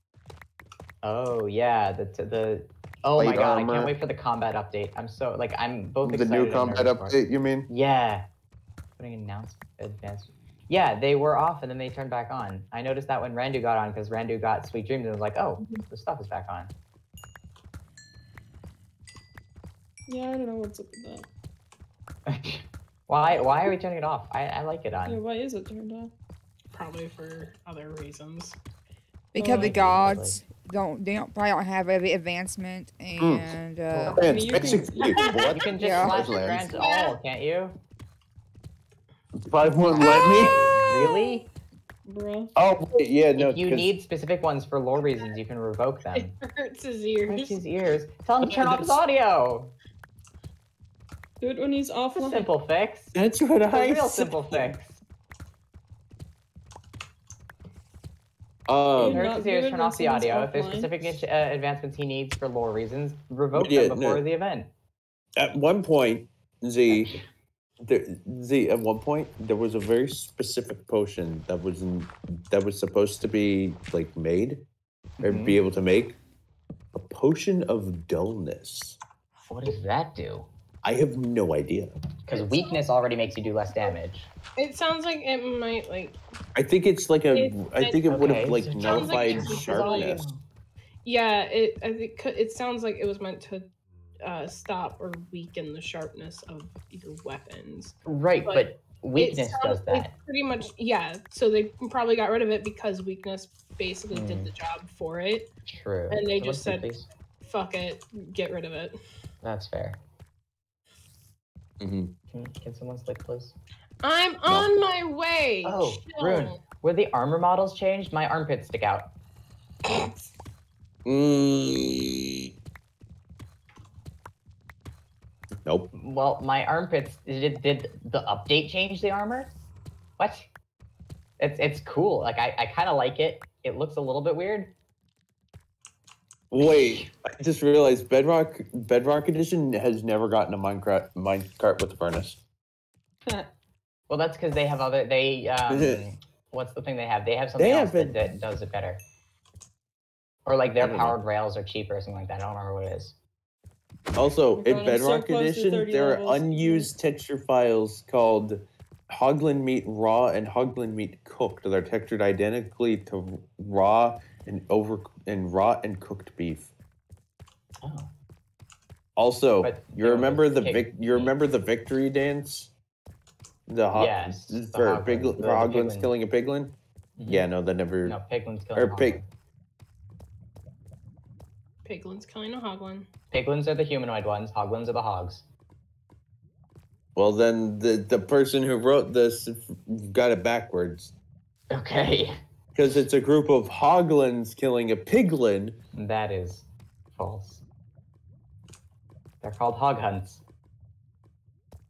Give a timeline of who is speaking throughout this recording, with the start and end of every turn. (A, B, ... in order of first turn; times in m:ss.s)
0:01.0-0:08.2 A
0:03.2-0:03.9 B
0:06.0-0:07.7 B
0:09.0-0:16.7 A
0:20.1-0:21.3 C
0:22.3-0:25.2 A
0:25.1-0:26.1 C
0:26.7-0:28.6 D
0:29.3-0:34.4 E
0:29.4-0:30.4 A
0:29.4-0:29.7 D
0:33.2-0:33.6 B
0:33.9-0:34.8 A
0:34.1-0:36.8 B
0:34.2-0:35.3 C
0:35.4-0:37.8 A
0:35.8-0:36.1 E
0:36.7-0:37.1 D
0:39.4-0:40.6 B
0:39.9-0:41.4 D
0:40.7-0:41.5 A
0:42.0-0:42.5 C
0:42.6-0:43.9 B
0:43.4-0:46.3 A
0:46.1-0:47.6 D
0:47.3-0:49.7 A
0:48.4-0:49.0 B
0:51.4-0:52.5 C
0:52.1-0:55.0 A
0:53.1-0:54.7 B
0:58.7-0:59.2 B
0:59.0-1:00.9 C
0:59.0-1:04.7 A
1:03.6-1:04.2 B
1:05.4-1:07.2 B
1:06.9-1:07.2 A
1:07.8-1:14.6 B
1:15.2-1:15.6 A
1:15.2-1:16.2 B
1:16.9-1:19.0 B
1:19.5-1:20.5 A
1:20.8-1:21.9 B
1:22.2-1:24.3 A
1:22.3-1:22.8 D
1:24.6-1:26.2 D
1:26.5-1:30.2 B
1:27.3-1:28.0 D
1:28.1-1:30.4 A
1:28.8-1:30.2 D
1:31.0-1:33.6 D
1:34.2-1:45.5 D
1:38.0-1:40.1 A
1:44.1-1:44.5 A
1:45.7-1:47.0 A
1:46.1-1:46.9 D
1:47.4-1:49.0 D
1:49.4-1:50.0 A
1:51.8-1:52.1 B
1:52.3-1:53.5 A
1:54.0-1:56.6 D
1:55.6-1:59.1 A
2:01.0-2:02.5 B
2:05.6-2:05.9 B
2:05.9-2:09.5 A
2:10.2-2:10.5 A
2:11.4-2:14.7 A
2:16.5-2:22.4 B
2:16.6-2:17.1 A
2:24.1-2:29.0 A
2:25.7-2:26.0 B
2:27.6-2:28.2 B
2:30.4-2:33.1 A
2:30.8-2:31.2 B
2:34.1-2:46.7 B
2:34.6-2:36.9 C
2:47.8-2:48.1 A
2:49.2-2:52.7 B
2:49.6-2:51.3 A
2:53.7-2:56.7 B
2:53.9-2:56.1 A
2:57.2-2:57.5 A
2:57.3-2:58.2 B
2:58.0-2:59.2 A
2:58.7-2:59.2 B
3:01.8-3:03.1 D
3:03.3-3:05.4 A
3:07.1-3:11.1 B
3:11.7-3:12.3 A
3:12.7-3:15.8 B
3:15.9-3:17.6 A
3:19.4-3:20.4 A